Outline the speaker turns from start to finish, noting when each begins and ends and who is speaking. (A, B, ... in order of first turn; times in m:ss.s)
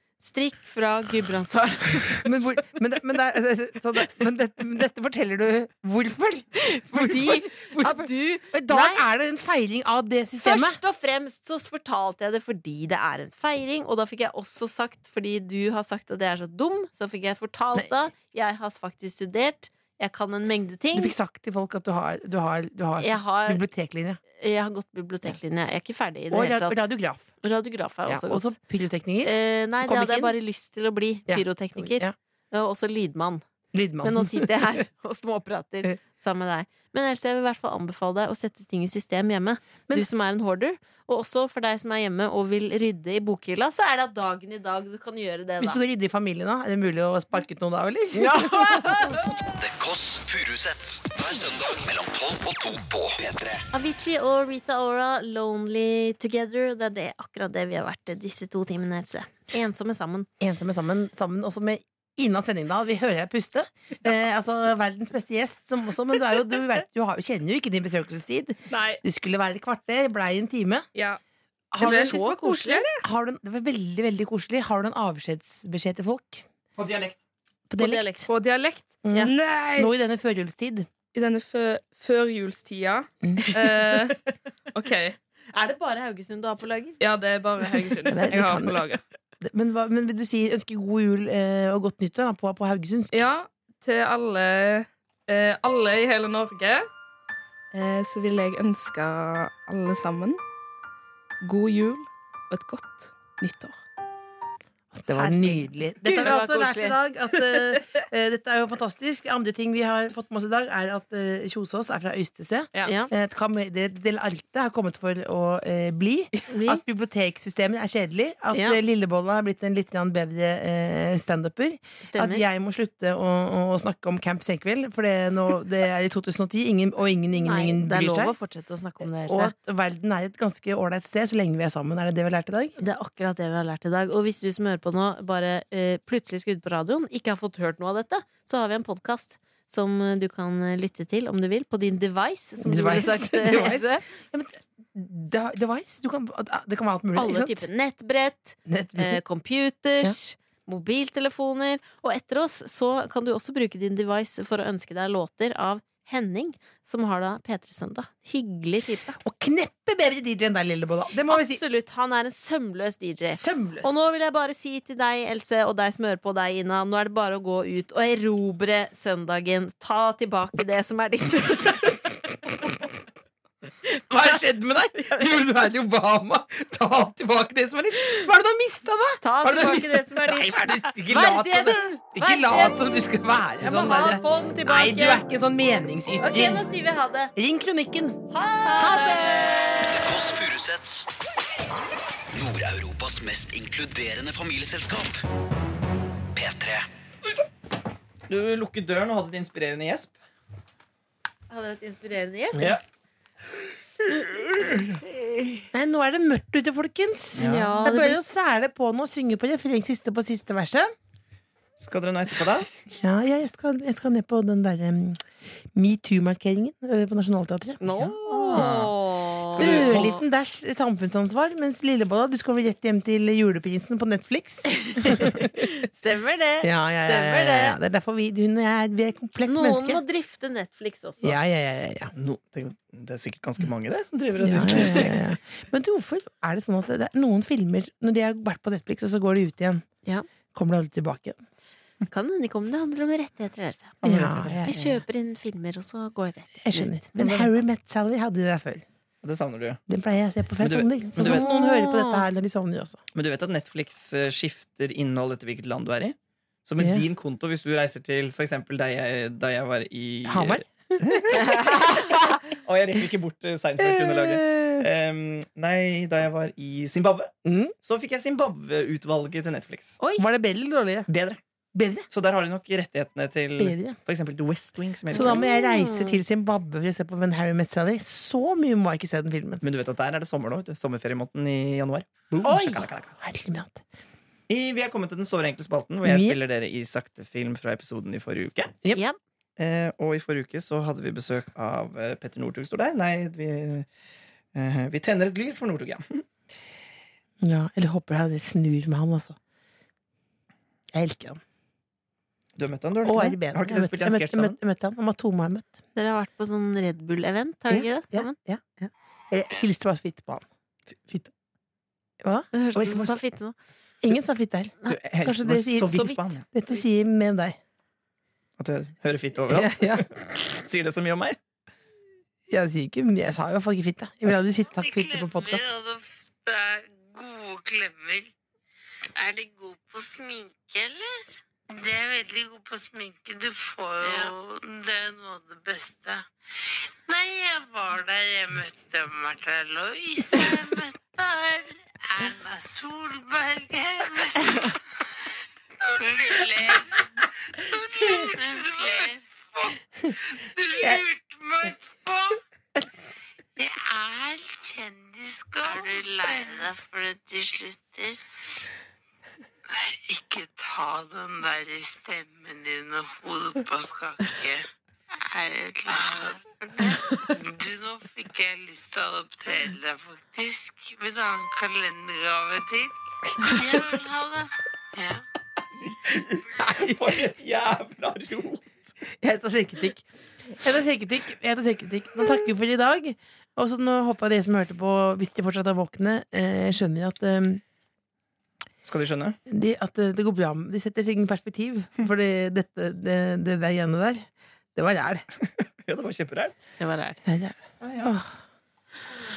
0:00.2-0:02.3 A
0:02.1-0:10.8 B
0:06.6-0:09.0 A
0:10.4-0:21.1 A
0:20.9-0:24.2 B
0:23.0-0:23.6 A
0:24.3-0:26.8 A
0:26.3-0:27.3 B
0:27.4-0:28.5 A
0:28.1-0:30.3 B
0:29.2-0:33.4 A
0:31.3-0:32.1 B
0:33.7-0:34.7 B
0:34.0-0:45.8 A
0:45.6-0:49.0 B
0:48.1-0:49.3 A
0:49.6-0:53.6 C
0:53.7-1:00.3 A
1:00.4-1:10.8 B
1:08.7-1:09.0 D
1:11.7-1:16.4 B
1:11.8-1:13.0 D
1:16.8-1:17.2 E
1:17.7-1:18.0 B
1:17.8-1:18.3 A
1:18.3-1:19.9 D
1:19.0-1:20.9 B
1:21.1-1:24.2 D
1:23.2-1:23.8 B
1:24.7-1:25.2 D
1:25.5-1:27.0 A
1:27.0-1:29.0 D
1:28.1-1:28.8 B
1:29.4-1:33.2 B
1:33.1-1:36.9 D
1:37.7-1:40.4 D
1:41.4-1:43.8 D
1:44.9-2:08.3 B
1:45.1-1:47.0 A
1:52.8-1:53.1 A
1:56.5-1:56.8 A
1:58.5-1:58.8 A
2:02.0-2:02.4 A
2:07.4-2:09.5 A
2:09.0-2:12.8 B
2:12.8-2:24.0 A
2:22.6-2:27.7 B
2:27.2-2:39.2 A
2:28.6-2:29.2 B
2:39.2-2:41.6 B
2:41.3-2:52.2 A
2:43.3-2:44.0 B
2:54.1-3:06.6 B
2:55.0-2:55.2 A
2:59.2-3:05.2 A
3:06.2-3:07.3 A
3:07.4-3:09.6 B
3:08.3-3:10.0 A
3:09.9-3:11.1 C
3:12.3-3:15.2 C
3:16.3-3:16.8 C
3:18.3-3:20.1 E
3:21.5-3:22.8 A
3:22.5-3:22.8 E
3:24.3-3:24.9 E
3:25.7-3:30.9 B
3:27.3-3:27.7 E
3:27.4-3:28.2 A
3:31.8-3:32.9 E
3:32.9-3:35.2 B
3:35.7-3:38.8 B
3:37.8-3:40.2 A
3:37.9-3:38.9 E
3:39.5-3:40.2 E
3:39.5-3:45.6 B
3:44.8-3:47.8 A
3:46.6-3:50.0 B
3:49.4-3:51.4 A
3:51.2-3:52.1 B
3:52.1-3:55.3 E
3:54.4-3:59.8 B
3:54.6-3:55.0 A
4:00.5-4:01.4 B
4:02.1-4:07.5 A
4:04.0-4:05.0 B
4:04.0-4:04.4 E
4:06.6-4:08.8 B
4:09.2-4:09.8 E
4:09.9-4:13.0 B
4:10.6-4:11.5 E
4:11.2-4:12.2 A
4:13.1-4:30.0 E
4:20.3-4:21.9 B
4:21.3-4:22.0 A
4:23.8-4:24.8 B
4:27.4-4:27.7 B
4:30.2-4:31.1 B
4:31.1-4:31.4 E
4:31.7-4:32.1 B
4:32.1-4:35.4 E
4:33.6-4:34.0 B
4:35.1-4:39.6 B
4:35.1-4:36.2 A
4:39.6-4:43.2 E
4:42.4-4:43.8 B
4:44.5-4:48.7 E
4:46.0-4:46.4 B
4:48.9-4:49.2 A
4:49.6-4:53.8 E
4:54.5-4:56.2 E
4:57.4-4:59.4 B
5:00.9-5:01.4 B
5:02.6-5:04.6 E
5:03.0-5:05.8 B
5:05.9-5:08.4 A
5:07.7-5:10.4 B
5:12.2-5:13.2 B
5:12.5-5:13.5 A
5:14.0-5:17.6 B
5:14.9-5:16.5 E
5:18.6-5:21.4 E
5:19.5-5:20.1 B
5:22.5-5:25.6 B
5:24.6-5:28.3 F
5:29.2-5:36.2 F
5:37.0-5:44.8 F
5:45.8-5:47.0 F
5:47.6-5:52.4 F
5:53.6-5:58.2 F
5:59.7-6:04.6 F
6:05.2-6:15.2 F
6:13.4-6:14.1 B
6:15.7-6:18.8 E
6:16.5-6:17.2 B
6:19.1-6:20.0 B
6:20.6-6:27.6 B
6:28.8-6:29.4 E
6:29.4-6:35.2 B
6:35.5-6:36.6 E
6:36.8-6:37.2 A
6:37.2-6:38.4 B
6:37.8-6:38.1 E